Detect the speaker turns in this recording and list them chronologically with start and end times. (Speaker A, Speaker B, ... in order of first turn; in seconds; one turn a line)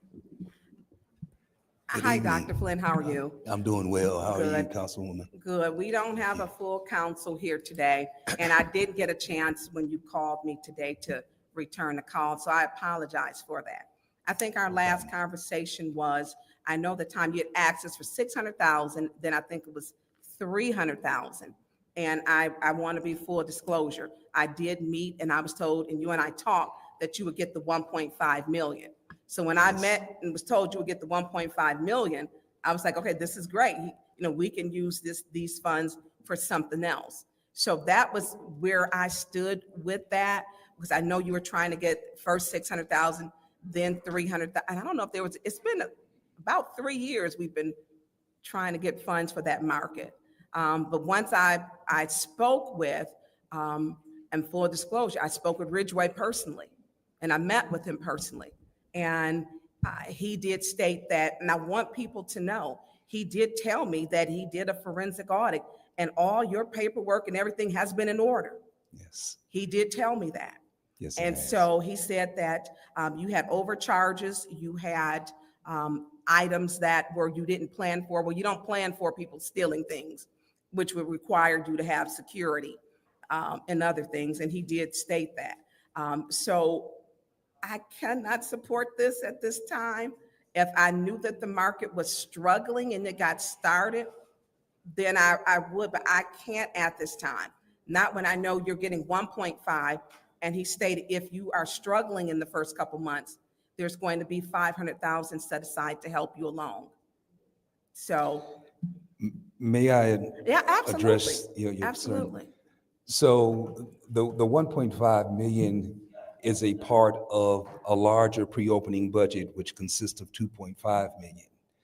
Speaker A: 1.9-3.4
Speaker B: 1.9-2.6
Speaker B: 3.4-5.3
Speaker A: 4.3-4.7
Speaker A: 5.3-45.9
Speaker B: 14.7-15.1
Speaker A: 46.4-47.7
Speaker A: 48.4-68.6
Speaker B: 68.9-69.4
Speaker A: 69.5-70.6
Speaker B: 71.0-71.6
Speaker A: 71.2-82.8
Speaker A: 83.3-87.0
Speaker A: 87.6-94.1
Speaker A: 94.9-106.9
Speaker A: 107.9-108.5
Speaker B: 109.2-112.3
Speaker A: 110.4-112.5
Speaker B: 113.1-121.5